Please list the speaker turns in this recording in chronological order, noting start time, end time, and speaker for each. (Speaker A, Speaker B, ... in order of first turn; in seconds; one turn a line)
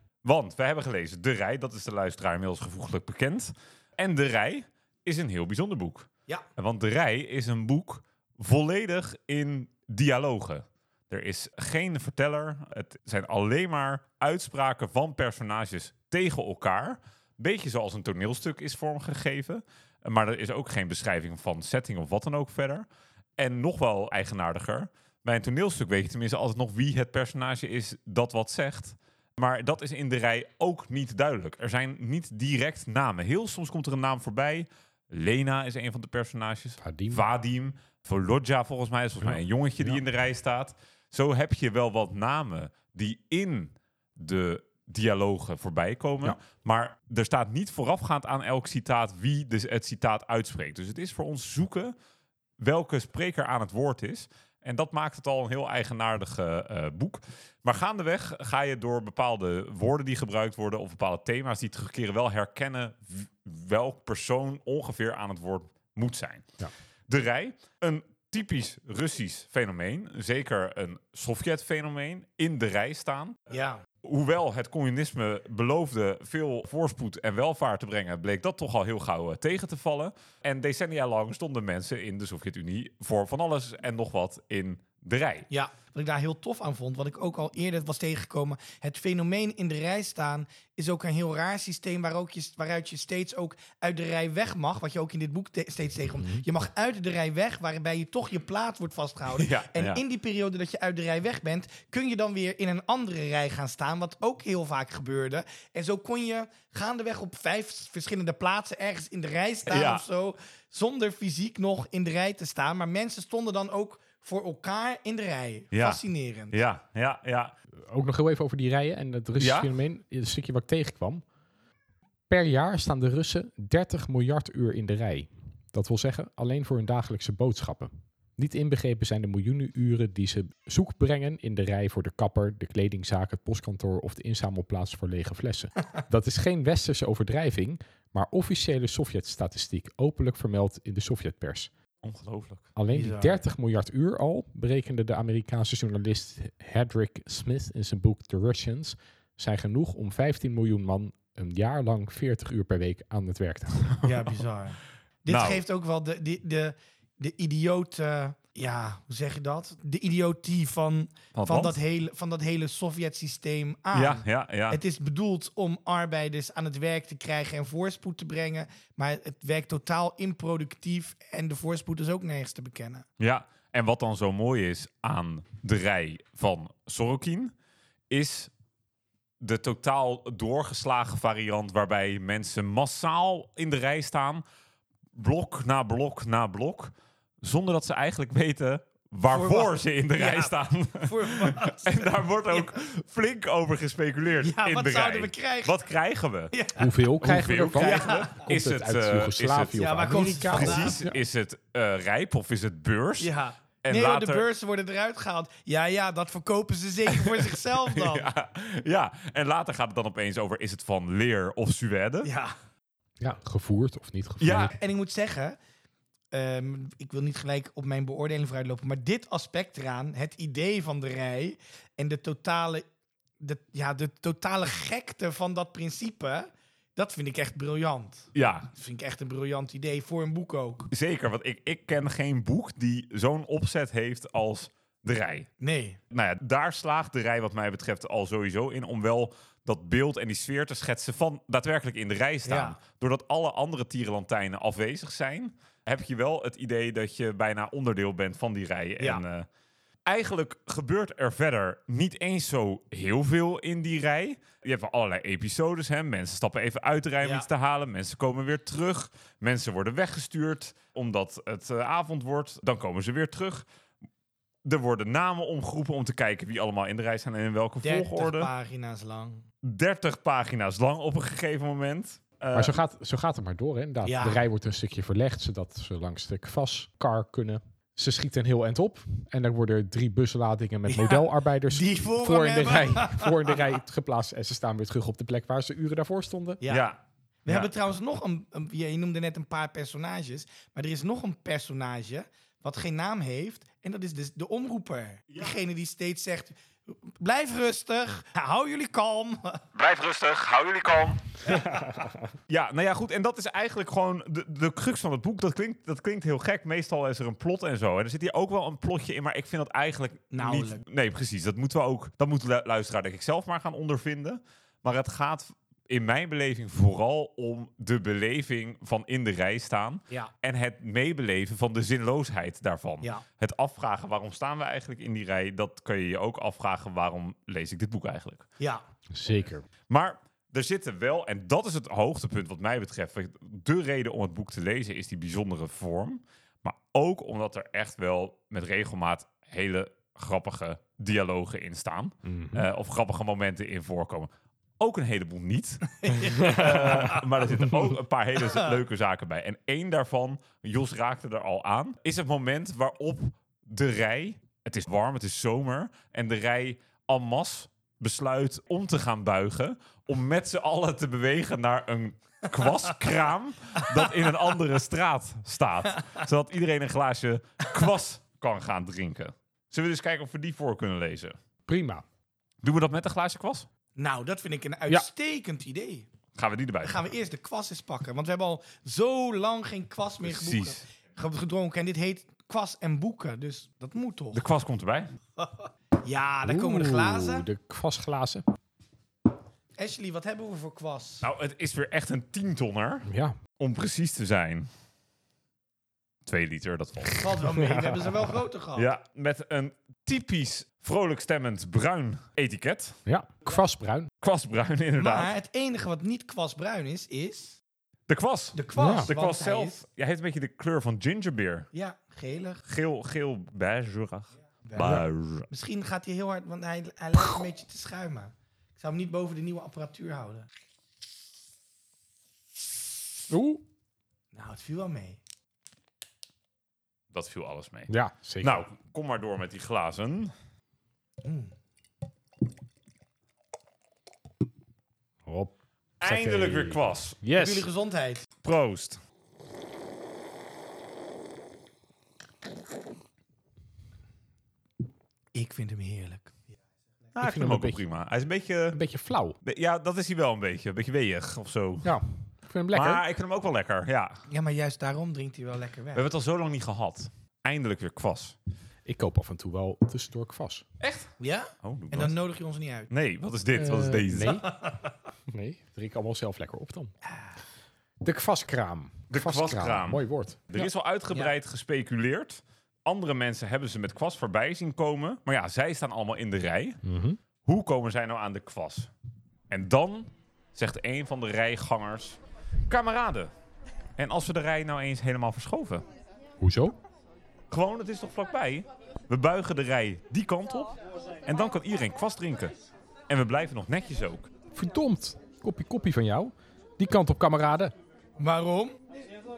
Speaker A: 0.2-22.9
Speaker A: 23.4-51.9
Speaker B: 36.8-37.2
Speaker B: 39.2-40.0
Speaker A: 52.6-66.5
Speaker A: 67.1-73.3
Speaker C: 73.5-73.8
Speaker A: 74.0-85.5
Speaker C: 85.5-116.6
Speaker B: 96.2-96.4
Speaker A: 99.3-100.0
Speaker A: 109.7-110.0
Speaker A: 115.7-117.5
Speaker B: 117.9-121.2
Speaker A: 119.4-119.7
Speaker B: 122.3-141.7
Speaker A: 142.0-142.7
Speaker B: 142.8-154.0
Speaker C: 142.9-143.4
Speaker C: 154.0-173.0
Speaker A: 155.3-155.6
Speaker A: 161.3-161.8
Speaker A: 163.9-164.8
Speaker A: 173.2-177.5
Speaker A: 178.1-178.5
Speaker A: 179.4-184.4
Speaker A: 185.2-196.5
Speaker C: 189.3-192.7
Speaker C: 194.4-195.8
Speaker C: 196.5-196.9
Speaker B: 196.8-201.2
Speaker A: 197.2-203.3
Speaker C: 197.8-198.4
Speaker C: 199.8-201.0
Speaker C: 203.2-208.3
Speaker A: 203.8-204.4
Speaker A: 207.1-212.3
Speaker C: 212.2-212.5
Speaker B: 213.2-214.7
Speaker A: 214.4-214.7
Speaker C: 214.7-215.6
Speaker C: 216.3-222.8
Speaker C: 223.4-230.9
Speaker A: 228.3-228.7
Speaker A: 230.9-235.5
Speaker C: 235.6-236.0
Speaker A: 236.1-249.5
Speaker C: 242.4-242.8
Speaker A: 250.1-263.6
Speaker C: 257.2-257.5
Speaker A: 264.6-268.5
Speaker C: 267.8-269.4
Speaker A: 269.6-272.8
Speaker B: 272.5-286.6
Speaker C: 274.0-274.4
Speaker C: 280.9-283.7
Speaker C: 286.6-286.9
Speaker A: 286.7-287.7
Speaker C: 287.4-299.6
Speaker A: 299.7-301.4
Speaker B: 301.7-302.1
Speaker A: 302.5-328.4
Speaker C: 310.3-310.8
Speaker B: 329.1-329.6
Speaker A: 329.9-371.4
Speaker B: 342.2-342.6
Speaker C: 345.9-347.2
Speaker C: 348.4-348.7
Speaker B: 371.7-372.0
Speaker A: 372.6-373.7
Speaker C: 374.0-376.1
Speaker A: 376.4-377.0
Speaker C: 376.8-384.4
Speaker A: 380.2-380.8
Speaker A: 384.3-385.1
Speaker C: 385.4-387.4
Speaker B: 386.4-388.4
Speaker C: 389.8-391.2
Speaker A: 391.2-393.1
Speaker B: 393.1-393.4
Speaker A: 393.6-394.7
Speaker A: 396.2-397.4
Speaker C: 397.1-398.9
Speaker B: 397.7-398.0
Speaker A: 398.8-403.0
Speaker B: 403.1-404.1
Speaker A: 404.2-405.3
Speaker C: 405.0-407.6
Speaker A: 408.1-411.7
Speaker C: 408.5-409.8
Speaker B: 408.8-409.1
Speaker C: 411.7-412.6
Speaker A: 412.6-415.5
Speaker C: 414.7-420.5
Speaker B: 423.3-423.6
Speaker C: 424.3-425.2
Speaker A: 427.1-430.3
Speaker B: 427.9-428.6
Speaker C: 431.2-431.5
Speaker B: 435.2-437.7
Speaker A: 436.0-437.2
Speaker C: 437.3-438.3
Speaker A: 438.4-439.0
Speaker C: 445.3-446.4
Speaker A: 447.1-448.8
Speaker B: 447.2-447.8
Speaker B: 448.7-449.4
Speaker A: 449.4-452.0
Speaker B: 451.8-453.0
Speaker A: 452.7-454.2
Speaker C: 454.3-456.0
Speaker A: 455.9-458.4
Speaker B: 458.9-460.6
Speaker A: 460.8-462.1
Speaker C: 461.2-462.9
Speaker A: 462.9-464.4
Speaker B: 463.5-464.5
Speaker C: 464.4-464.9
Speaker B: 465.3-466.9
Speaker B: 468.0-470.7
Speaker A: 469.1-476.8
Speaker B: 476.8-477.2
Speaker A: 477.4-478.9
Speaker A: 479.5-483.3
Speaker A: 484.0-485.9
Speaker B: 486.4-486.8
Speaker A: 487.5-490.7
Speaker A: 491.2-492.5
Speaker A: 493.1-494.3
Speaker B: 494.5-497.7
Speaker C: 498.2-498.8